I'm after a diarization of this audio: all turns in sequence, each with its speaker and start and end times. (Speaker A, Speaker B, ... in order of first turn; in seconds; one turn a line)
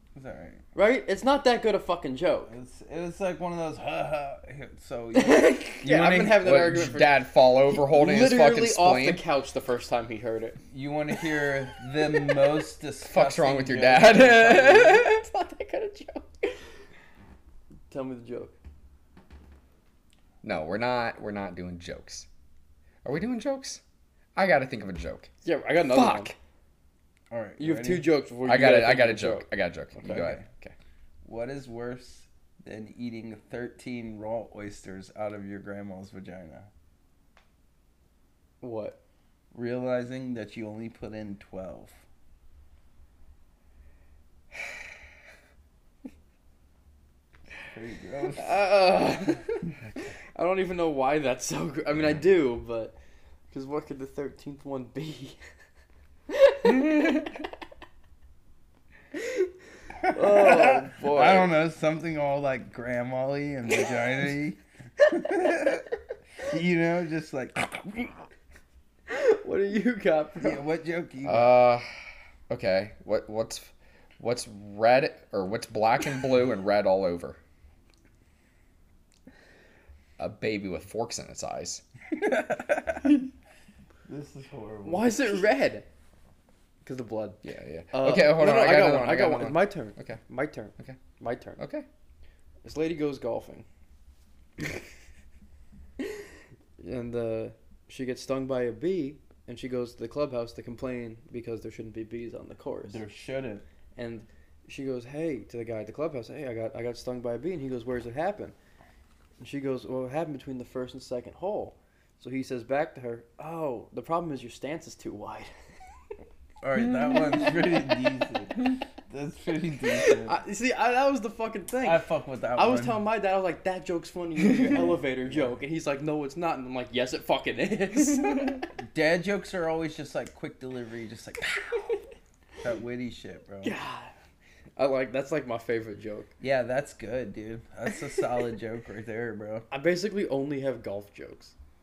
Speaker A: 0.1-0.6
Speaker B: 0.7-2.5
Speaker A: 2.5-6.5
Speaker B: 5.1-10.6
Speaker C: 6.4-9.2
Speaker A: 10.7-15.1
Speaker B: 12.1-12.5
Speaker C: 13.1-14.8
Speaker B: 14.5-16.6
Speaker B: 17.9-18.5
Speaker C: 20.4-22.3
Speaker C: 23.0-23.8
Speaker C: 24.4-25.3
Speaker B: 25.4-26.3
Speaker C: 25.9-26.3
Speaker A: 27.3-28.1
Speaker B: 27.6-29.5
Speaker C: 28.4-30.7
Speaker A: 30.0-30.4
Speaker A: 31.2-36.7
Speaker B: 38.6-39.0
Speaker A: 39.5-42.0
Speaker A: 47.7-48.6
Speaker B: 48.4-49.7
Speaker B: 50.4-53.0
Speaker B: 53.5-55.4
Speaker B: 56.3-57.4
Speaker B: 59.1-59.5
Speaker A: 60.0-68.3
Speaker B: 60.1-61.5
Speaker B: 65.0-65.4
Speaker B: 69.1-70.6
Speaker A: 70.4-71.6
Speaker C: 71.2-71.9
Speaker C: 72.5-77.4
Speaker C: 80.2-81.8
Speaker A: 82.1-83.2
Speaker A: 84.1-85.4
Speaker B: 84.8-85.9
Speaker B: 86.8-87.4
Speaker C: 87.4-90.2
Speaker B: 87.9-91.6
Speaker C: 91.6-91.9
Speaker B: 92.6-93.7
Speaker B: 96.8-103.0
Speaker A: 102.9-103.6
Speaker B: 104.0-108.5
Speaker B: 109.4-115.5
Speaker A: 116.6-120.3
Speaker C: 117.0-117.5
Speaker B: 120.2-128.7
Speaker A: 121.8-123.0
Speaker A: 124.7-125.0
Speaker A: 128.8-132.0
Speaker A: 132.6-133.7
Speaker B: 133.6-134.1
Speaker B: 134.8-136.3
Speaker A: 136.4-139.7
Speaker B: 139.7-141.6